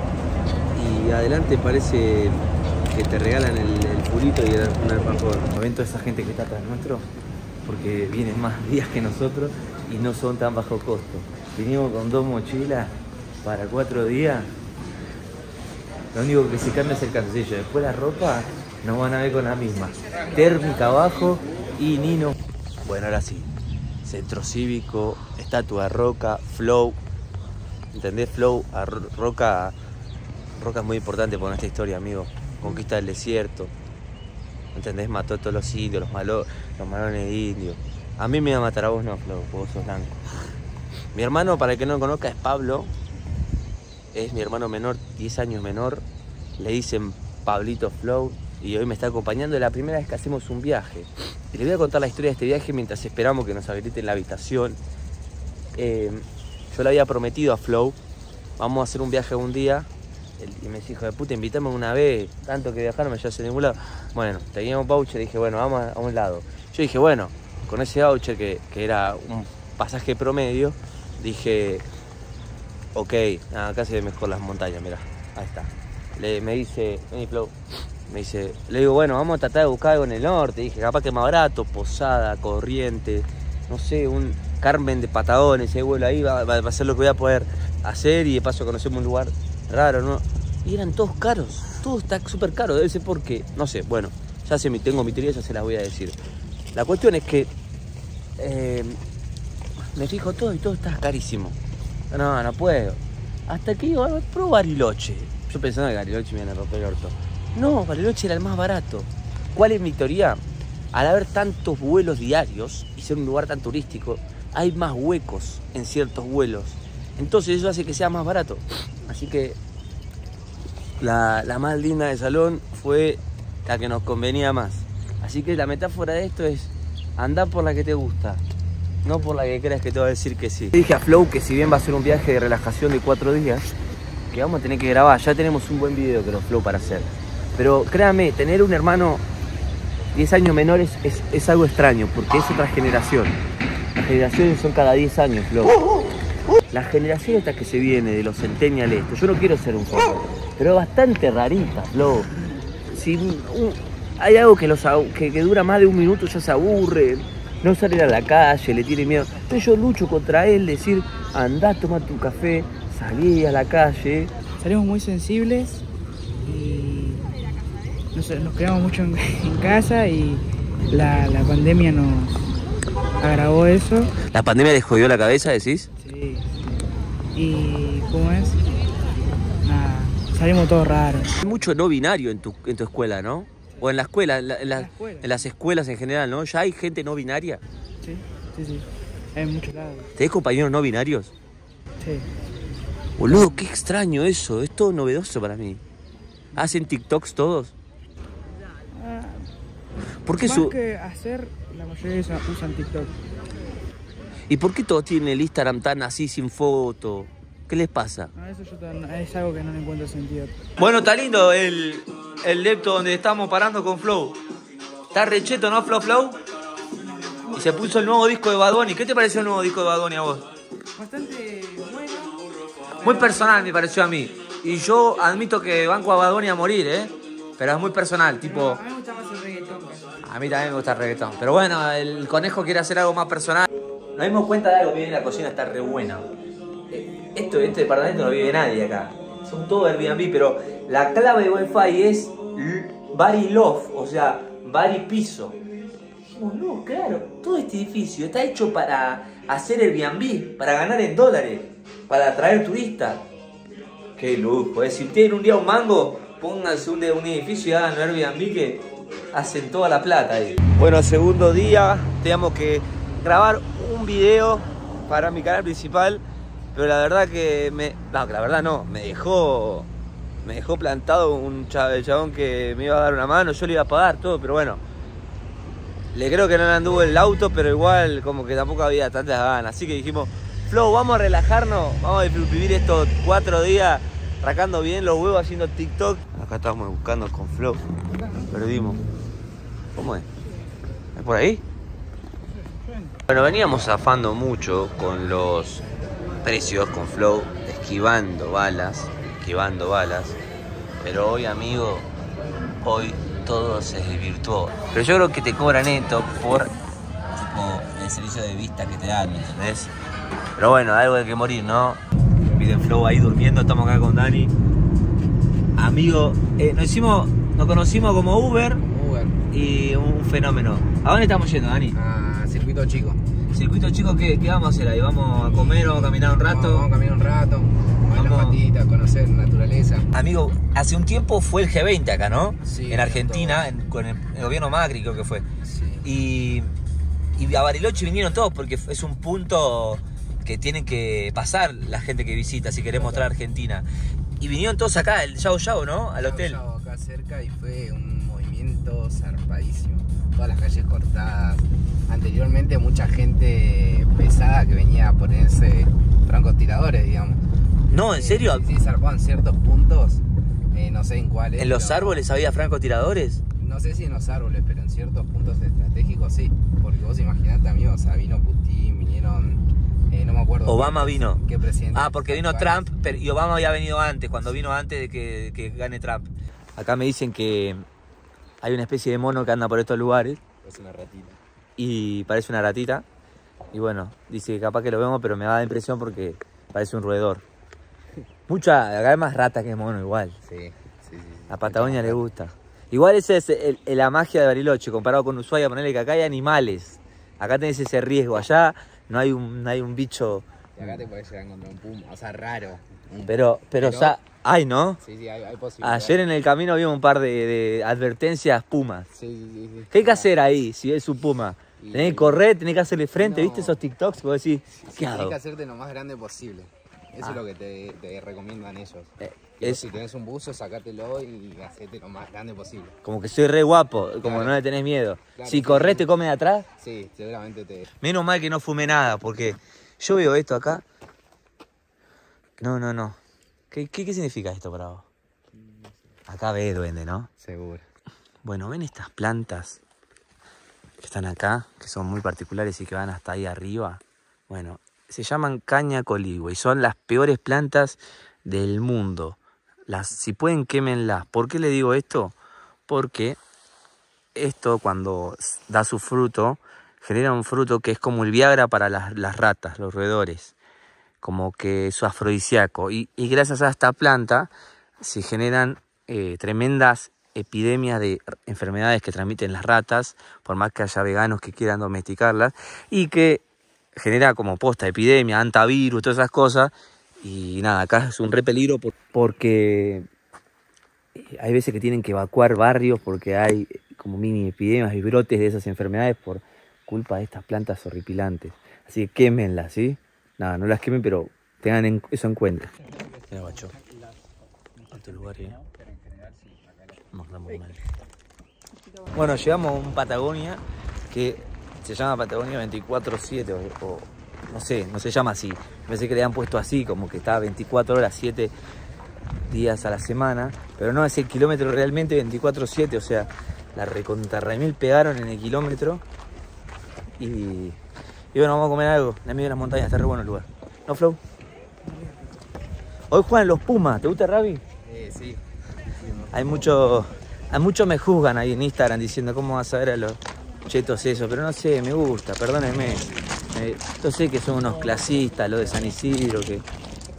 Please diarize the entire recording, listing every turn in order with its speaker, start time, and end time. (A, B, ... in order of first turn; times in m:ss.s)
0:00.7-0:07.1 A
0:07.6-0:14.5 A
0:16.1-0:23.5 A
0:24.0-0:27.0 A
0:27.9-0:29.7 A
0:30.6-0:33.7 A
0:34.7-0:40.2 A
0:41.1-0:42.9 A
0:44.1-0:46.0 A
0:46.6-0:54.8 A
0:55.8-0:58.0 A
0:58.6-1:11.8 A
1:12.9-1:17.6 A
1:18.1-1:36.2 A
1:36.7-1:37.5 A
1:38.4-1:39.0 A
1:39.9-1:41.6 A
1:42.1-1:50.4 A
1:50.9-1:59.6 A
2:01.0-2:08.4 A
2:09.0-2:13.7 A
2:14.3-2:19.2 A
2:20.1-2:23.4 A
2:24.0-2:25.8 A
2:26.7-2:32.3 A
2:32.9-2:44.3 A
2:44.6-2:45.8 B
2:46.4-2:47.3 B
2:48.1-2:52.5 B
2:53.2-2:54.1 B
2:54.3-2:55.9 A
2:56.0-2:56.7 B
2:57.3-2:58.6 B
2:59.6-3:01.4 B
3:01.4-3:07.6 A
3:04.7-3:05.3 B
3:08.0-3:10.1 B
3:10.2-3:11.3 A
3:12.0-3:12.3 B
3:13.2-3:15.8 A
3:13.3-3:13.6 B
3:16.5-3:17.7 A
3:18.9-3:19.5 B
3:20.2-3:20.7 A
3:20.3-3:23.2 B
3:24.5-3:28.3 A
3:28.3-3:30.6 B
3:30.8-3:34.4 A
3:35.1-3:36.4 A
3:37.0-3:37.9 B
3:37.5-3:40.4 A
3:40.9-3:42.4 B
3:42.9-3:43.7 B
3:43.0-3:48.8 A
3:48.4-3:50.2 B
3:50.2-3:56.3 A
3:56.9-4:05.6 A
4:06.3-4:13.2 A
4:14.2-4:26.2 A
4:26.7-4:29.9 A
4:30.4-4:34.8 A
4:36.1-4:47.8 A
4:48.4-4:49.0 A
4:50.0-4:50.3 A
4:51.1-4:51.6 A
4:53.3-4:55.8 A
4:56.4-5:00.4 A
5:01.0-5:02.1 A
5:02.8-5:06.7 A
5:07.3-5:09.9 A
5:10.6-5:14.5 A
5:15.8-5:18.8 A
5:18.8-5:19.4 C
5:19.5-5:22.0 A
5:21.9-5:23.2 C
5:23.5-5:26.9 A
5:25.5-5:30.1 C
5:28.1-5:28.6 A
5:30.1-5:35.4 A
5:32.6-5:33.7 C
5:35.6-5:36.0 C
5:36.0-5:36.7 A
5:37.4-5:43.8 A
5:42.9-5:43.3 C
5:44.4-5:46.6 A
5:46.2-5:57.4 C
5:57.9-5:58.7 A
5:58.1-6:02.2 C
6:01.6-6:03.4 A
6:03.6-6:12.8 C
6:10.6-6:11.4 A
6:11.9-6:17.8 A
6:18.6-6:20.4 A
6:20.6-6:21.4 C
6:21.8-6:23.0 A
6:23.7-6:27.4 A
6:28.5-6:30.4 A
6:30.4-6:32.2 C
6:31.5-6:41.0 A
6:40.8-6:44.2 C
6:43.3-6:45.0 A
6:45.0-6:46.2 C
6:45.8-6:49.1 A
6:49.1-6:50.3 C
6:49.9-6:55.4 A
6:51.8-6:52.4 C
6:53.2-6:53.8 C
6:54.8-7:03.0 C
6:59.2-6:59.9 A
7:03.0-7:06.7 A
7:04.2-7:04.6 C
7:05.4-7:06.0 C
7:06.8-7:07.9 C
7:08.0-7:10.8 A
7:12.6-7:13.2 A
7:13.7-7:15.1 A
7:15.5-7:16.0 C
7:16.3-7:17.3 A
7:17.4-7:17.8 C
7:18.4-7:19.8 A
7:21.0-7:32.4 A
7:32.9-7:33.4 A
7:34.3-7:40.5 A
7:41.2-7:53.4 A
7:54.0-8:00.1 A
8:01.1-8:12.7 A
8:13.3-8:13.7 A
8:14.9-8:15.6 A
8:15.6-8:17.0 C
8:17.1-8:17.8 A
8:19.1-8:28.5 A
8:29.5-8:36.0 A
8:37.2-8:37.8 A
8:38.3-8:41.2 A
8:43.1-8:44.6 A
8:44.8-8:45.4 C
8:46.0-8:46.5 C
8:46.3-8:56.6 A